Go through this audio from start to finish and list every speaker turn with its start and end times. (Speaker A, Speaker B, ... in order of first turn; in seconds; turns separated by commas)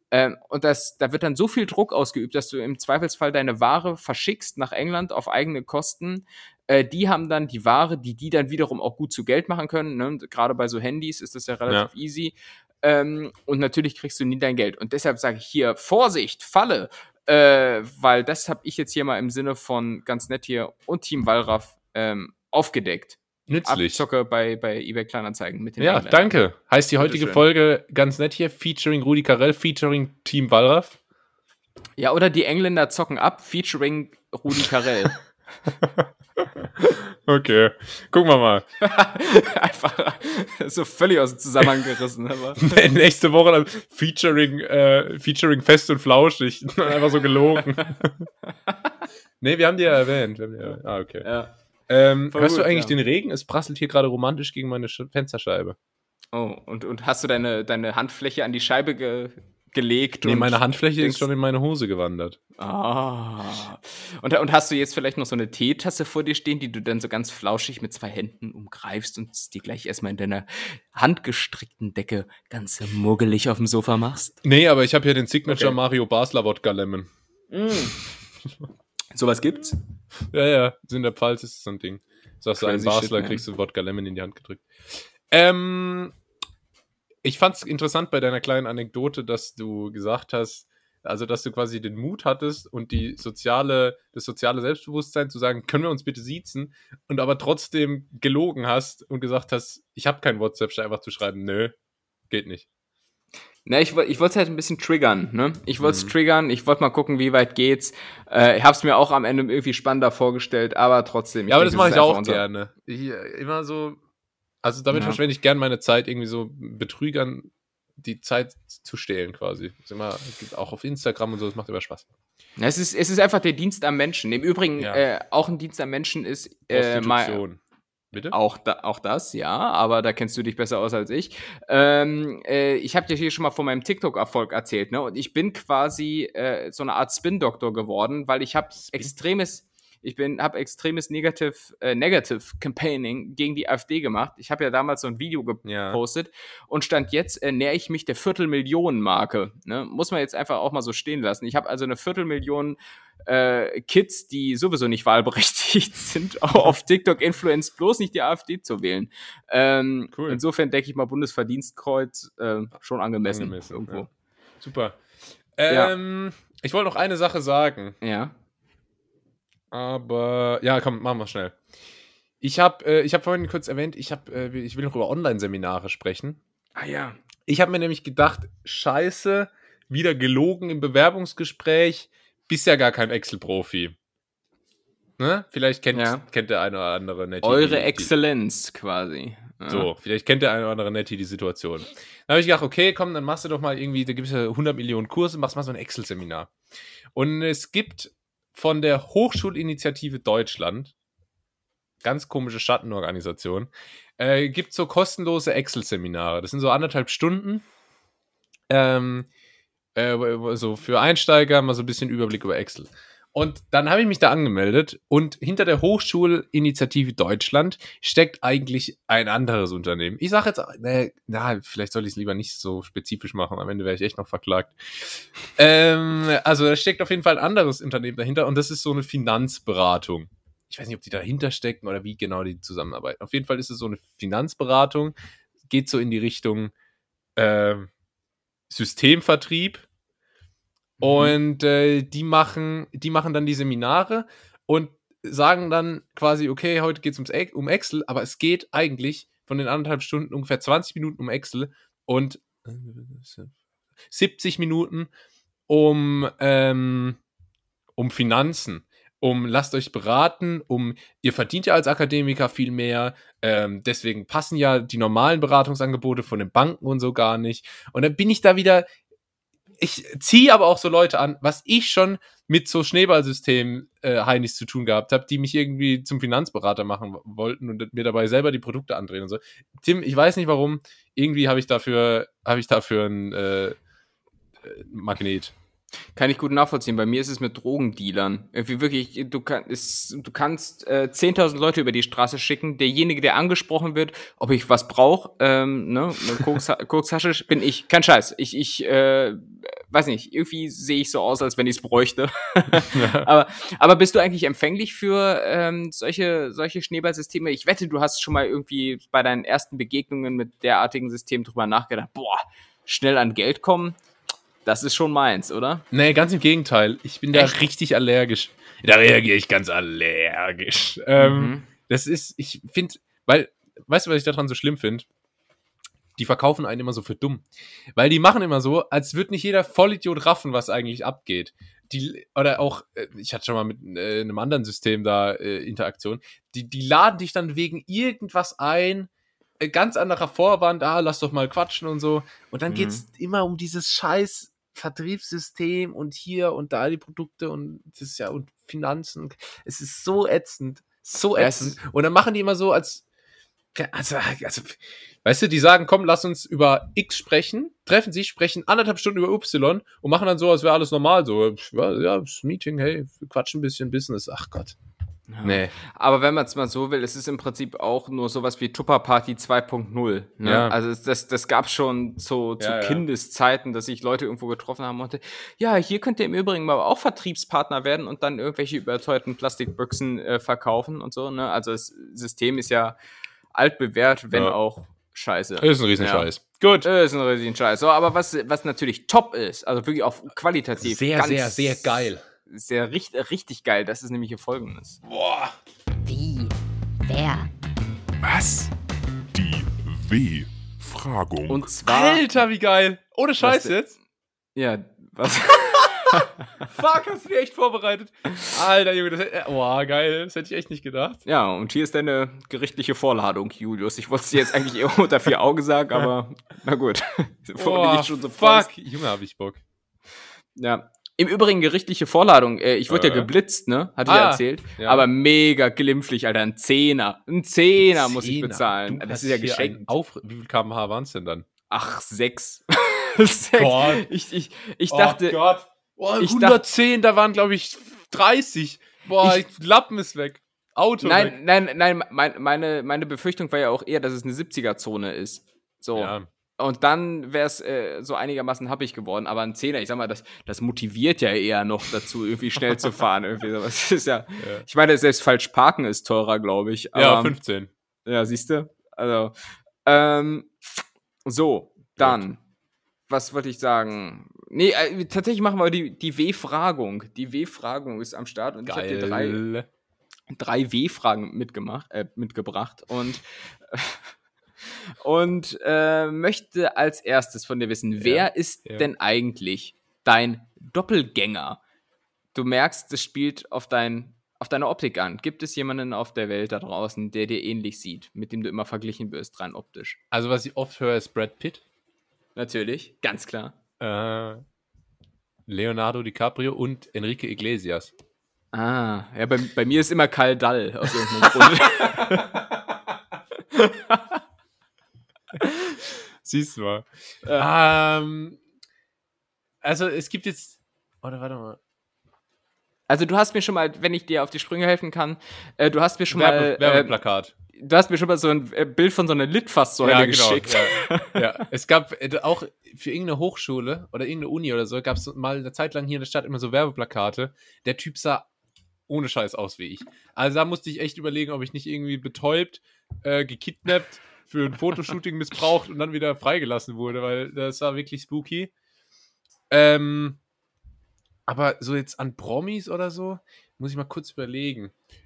Speaker A: 0.1-26.3, Speaker B: 23.5-24.0, Speaker B: 25.8-31.0, Speaker A: 27.0-27.4, Speaker A: 32.0-35.2, Speaker B: 35.8-36.1, Speaker B: 36.6-38.6, Speaker A: 38.8-42.8, Speaker B: 42.6-48.2, Speaker B: 49.4-51.3, Speaker A: 51.2-51.5, Speaker B: 51.9-55.8, Speaker A: 52.3-52.9, Speaker A: 56.3-61.2, Speaker B: 60.2-62.4, Speaker A: 62.6-74.4, Speaker B: 74.4-77.1, Speaker A: 75.5-75.8, Speaker A: 77.5-77.9, Speaker A: 79.1-79.8, Speaker B: 80.3-86.1, Speaker A: 82.6-83.4, Speaker B: 87.2-101.7, Speaker B: 102.3-102.7, Speaker A: 103.6-112.4, Speaker B: 105.8-106.1, Speaker B: 111.5-114.0, Speaker B: 114.6-122.0, Speaker A: 114.9-115.2, Speaker A: 122.6-127.4, Speaker B: 126.7-127.6, Speaker B: 128.1-128.4, Speaker A: 128.3-164.1, Speaker B: 138.8-139.1, Speaker B: 145.6-146.0, Speaker B: 160.1-160.4, Speaker B: 163.2-164.1, Speaker B: 164.6-165.0, Speaker B: 165.6-168.0, Speaker A: 168.0-168.3, Speaker B: 169.7-171.6, Speaker B: 172.4-176.4, Speaker A: 176.8-177.2, Speaker B: 177.5-183.9, Speaker B: 185.2-188.1, Speaker A: 185.9-186.2, Speaker A: 187.4-189.9, Speaker B: 189.7-196.5, Speaker B: 197.1-200.9, Speaker B: 202.0-207.6, Speaker B: 208.7-209.3, Speaker B: 209.9-235.1, Speaker B: 235.7-236.7, Speaker B: 237.3-237.9, Speaker B: 238.7-239.8, Speaker A: 241.0-241.3, Speaker B: 241.0-253.5, Speaker B: 254.1-255.1, Speaker B: 255.7-257.2, Speaker B: 258.0-268.9, Speaker B: 269.8-283.8, Speaker B: 284.6-285.5, Speaker A: 286.1-314.0, Speaker B: 302.8-303.3, Speaker A: 314.6-315.8, Speaker B: 315.9-325.1, Speaker A: 317.3-317.6, Speaker A: 321.2-321.7, Speaker B: 326.2-327.4, Speaker B: 327.9-339.1, Speaker B: 339.6-353.0, Speaker A: 342.7-343.0, Speaker A: 351.4-351.8, Speaker B: 353.7-364.8, Speaker A: 365.3-383.0, Speaker B: 365.4-365.7, Speaker B: 370.4-370.8, Speaker B: 372.6-373.0, Speaker A: 383.5-386.3, Speaker B: 385.6-386.9, Speaker A: 386.8-395.0, Speaker B: 390.8-392.2, Speaker B: 395.0-395.5, Speaker A: 396.1-397.5, Speaker C: 398.2-398.7, Speaker C: 399.3-401.7, Speaker A: 401.5-402.2, Speaker B: 401.8-403.9, Speaker A: 403.4-403.7, Speaker A: 404.5-406.5, Speaker B: 406.2-411.2, Speaker A: 411.2-418.7, Speaker B: 417.6-419.6, Speaker A: 420.6-429.9, Speaker B: 422.9-423.3, Speaker B: 424.0-425.1, Speaker B: 427.9-431.5, Speaker A: 431.7-435.4, Speaker B: 433.5-434.0, Speaker B: 434.9-441.4, Speaker A: 436.2-436.6, Speaker A: 441.0-457.4, Speaker B: 445.9-446.3, Speaker B: 454.4-454.6, Speaker B: 456.9-457.7, Speaker A: 458.1-459.3, Speaker A: 459.8-462.4, Speaker B: 462.0-462.2, Speaker A: 463.1-469.4, Speaker B: 468.6-469.7, Speaker A: 470.3-474.1, Speaker A: 475.0-481.6, Speaker B: 478.0-478.9, Speaker A: 482.3-490.0, Speaker B: 490.1-491.6, Speaker A: 492.3-493.6, Speaker B: 493.8-494.4, Speaker B: 495.5-497.9, Speaker A: 498.5-502.4, Speaker B: 501.8-502.5, Speaker A: 503.5-504.2, Speaker A: 505.4-505.7, Speaker B: 506.2-506.9, Speaker B: 507.4-508.4, Speaker B: 509.6-511.6, Speaker A: 512.9-517.0, Speaker B: 516.1-517.3, Speaker A: 517.5-521.4, Speaker B: 519.8-528.3, Speaker B: 528.9-538.5, Speaker B: 539.5-540.2, Speaker B: 541.3-544.7